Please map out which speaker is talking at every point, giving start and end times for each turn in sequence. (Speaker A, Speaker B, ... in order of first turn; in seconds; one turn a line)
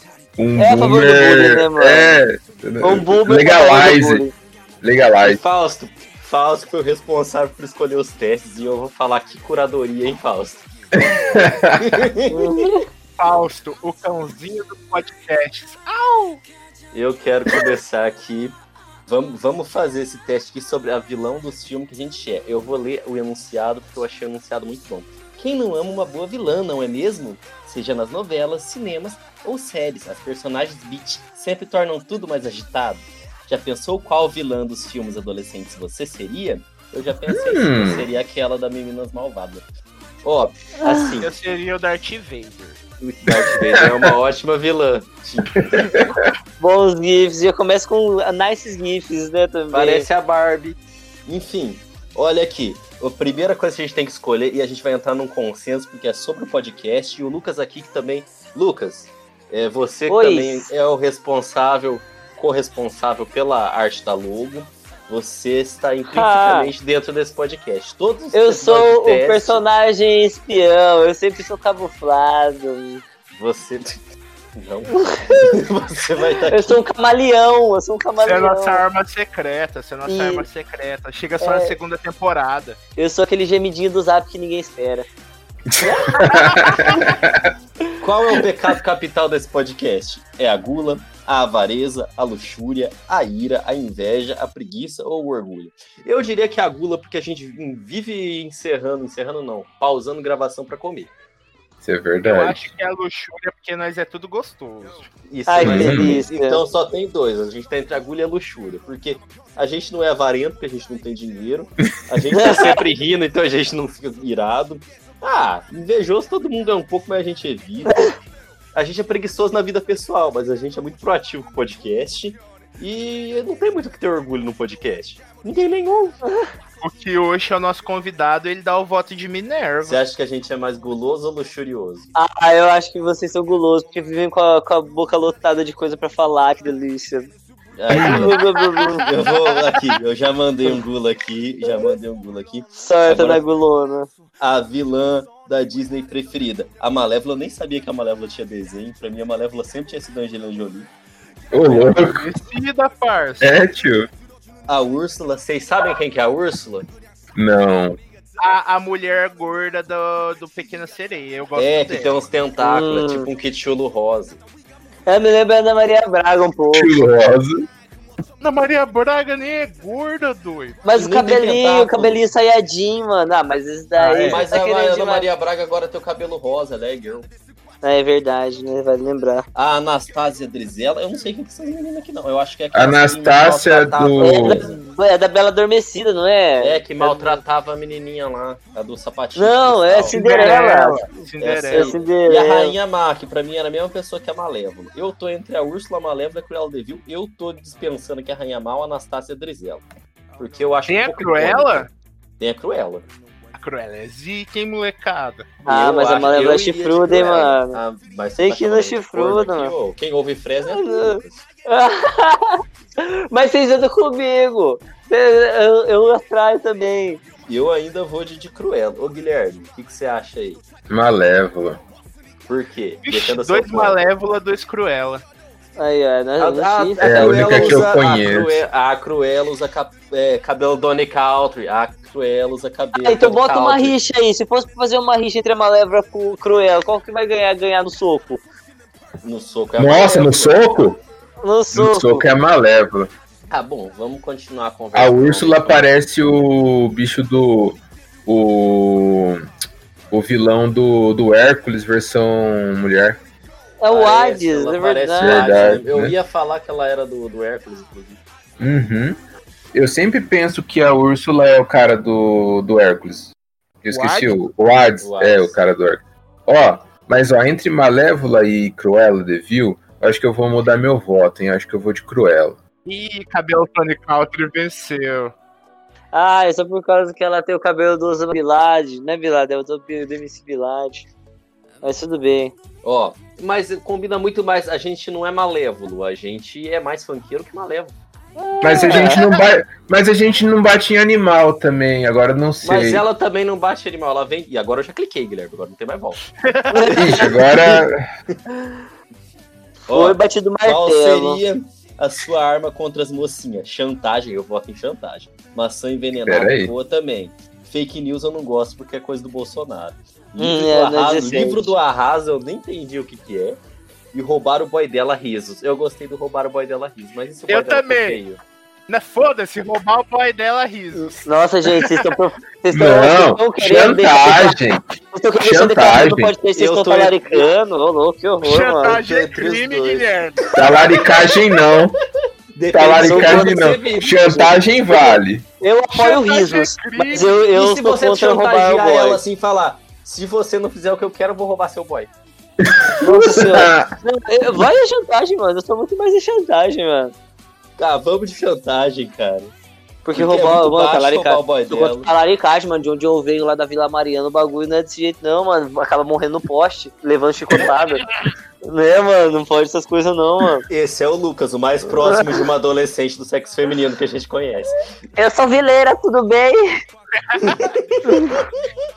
Speaker A: 0.4-4.2
Speaker B: 0.6-2.2
Speaker B: 2.8-4.3
Speaker A: 4.8-5.4
Speaker C: 5.2-10.7
Speaker A: 11.0-12.0
Speaker C: 11.8-12.7
Speaker B: 12.3-12.8
Speaker D: 13.2-16.4
Speaker C: 16.9-39.6
Speaker A: 37.3-38.1
Speaker C: 40.2-41.3
Speaker B: 40.8-41.2
Speaker D: 41.2-42.8
Speaker C: 43.0-46.1
Speaker A: 43.4-44.1
Speaker A: 45.6-46.2
Speaker B: 46.6-50.1
Speaker C: 49.7-69.6
Speaker B: 60.1-60.7
Speaker B: 66.1-66.7
Speaker B: 68.3-73.0
Speaker C: 73.3-73.9
Speaker C: 74.5-76.8
Speaker B: 76.5-78.8
Speaker D: 78.2-82.8
Speaker B: 80.0-80.4
Speaker B: 81.4-81.8
Speaker B: 83.0-85.1
Speaker A: 85.8-87.5
Speaker B: 85.8-87.1
Speaker C: 88.0-101.1
Speaker A: 101.8-102.6
Speaker D: 102.2-105.1
Speaker C: 105.3-118.1
Speaker B: 105.5-106.6
Speaker A: 105.6-106.2
Speaker B: 112.3-112.8
Speaker B: 117.8-118.1
Speaker C: 118.7-126.2
Speaker B: 126.2-126.5
Speaker D: 126.8-130.0
Speaker C: 129.8-132.1
Speaker B: 132.1-137.3
Speaker C: 137.8-138.4
Speaker A: 137.9-138.3
Speaker B: 137.9-139.1
Speaker C: 138.9-143.4
Speaker B: 142.8-144.1
Speaker C: 144.4-150.9
Speaker A: 151.5-152.3
Speaker C: 151.7-151.9
Speaker D: 151.8-153.5
Speaker A: 153.4-154.1
Speaker C: 154.7-156.9
Speaker A: 157.3-158.0
Speaker D: 158.4-162.2
Speaker C: 161.6-164.4
Speaker B: 162.6-163.3
Speaker B: 165.1-167.0
Speaker A: 166.7-167.7
Speaker D: 168.4-170.8
Speaker B: 170.8-175.3
Speaker C: 170.9-172.2
Speaker D: 173.9-174.4
Speaker C: 174.2-177.3
Speaker B: 177.8-179.4
Speaker C: 179.5-184.7
Speaker A: 182.7-184.6
Speaker B: 184.2-187.4
Speaker C: 186.6-190.6
Speaker B: 189.3-191.0
Speaker D: 190.1-191.9
Speaker C: 191.4-199.8
Speaker B: 191.7-192.7
Speaker C: 200.4-201.9
Speaker D: 200.8-201.9
Speaker C: 202.4-203.1
Speaker D: 203.5-205.5
Speaker C: 205.6-211.4
Speaker B: 205.7-207.8
Speaker B: 208.4-209.7
Speaker B: 210.7-217.2
Speaker C: 217.5-220.6
Speaker A: 220.9-221.8
Speaker C: 222.4-224.0
Speaker D: 223.0-225.2
Speaker B: 225.8-227.9
Speaker C: 226.4-233.9
Speaker A: 227.0-228.6
Speaker B: 232.9-238.4
Speaker C: 239.2-241.0
Speaker A: 239.8-241.0
Speaker B: 241.4-242.2
Speaker A: 241.7-243.1
Speaker C: 243.5-245.8
Speaker A: 244.9-249.5
Speaker A: 250.1-253.2
Speaker B: 253.8-255.5
Speaker C: 253.9-258.2
Speaker A: 255.2-256.1
Speaker A: 258.6-259.2
Speaker A: 259.7-263.3
Speaker A: 263.8-272.6
Speaker D: 263.9-264.4
Speaker C: 265.0-265.6
Speaker D: 272.9-275.3
Speaker B: 276.1-281.1
Speaker B: 281.8-282.5
Speaker C: 282.8-287.9
Speaker B: 288.4-289.2
Speaker A: 288.6-293.0
Speaker D: 288.8-289.3
Speaker C: 292.6-296.2
Speaker D: 296.4-297.2
Speaker B: 296.7-297.3
Speaker A: 296.9-297.9
Speaker C: 297.5-297.8
Speaker C: 299.9-313.6
Speaker B: 299.9-301.4
Speaker A: 306.1-306.7
Speaker B: 310.4-311.8
Speaker C: 314.1-318.4
Speaker D: 317.5-318.2
Speaker D: 318.9-321.2
Speaker B: 321.2-324.6
Speaker A: 322.7-324.8
Speaker B: 325.1-329.0
Speaker A: 325.4-326.3
Speaker C: 326.6-327.5
Speaker D: 328.4-330.5
Speaker C: 329.0-330.1
Speaker A: 330.5-331.9
Speaker C: 332.5-334.3
Speaker A: 332.7-335.4
Speaker B: 333.0-333.6
Speaker B: 334.3-339.2
Speaker D: 335.9-337.3
Speaker C: 336.9-342.1
Speaker A: 342.6-343.9
Speaker B: 343.0-347.1
Speaker C: 347.8-349.5
Speaker B: 350.0-358.0
Speaker C: 350.1-352.1
Speaker B: 358.6-360.6
Speaker C: 360.7-364.8
Speaker B: 361.9-362.2
Speaker B: 365.1-366.7
Speaker C: 367.4-368.4
Speaker B: 368.0-368.4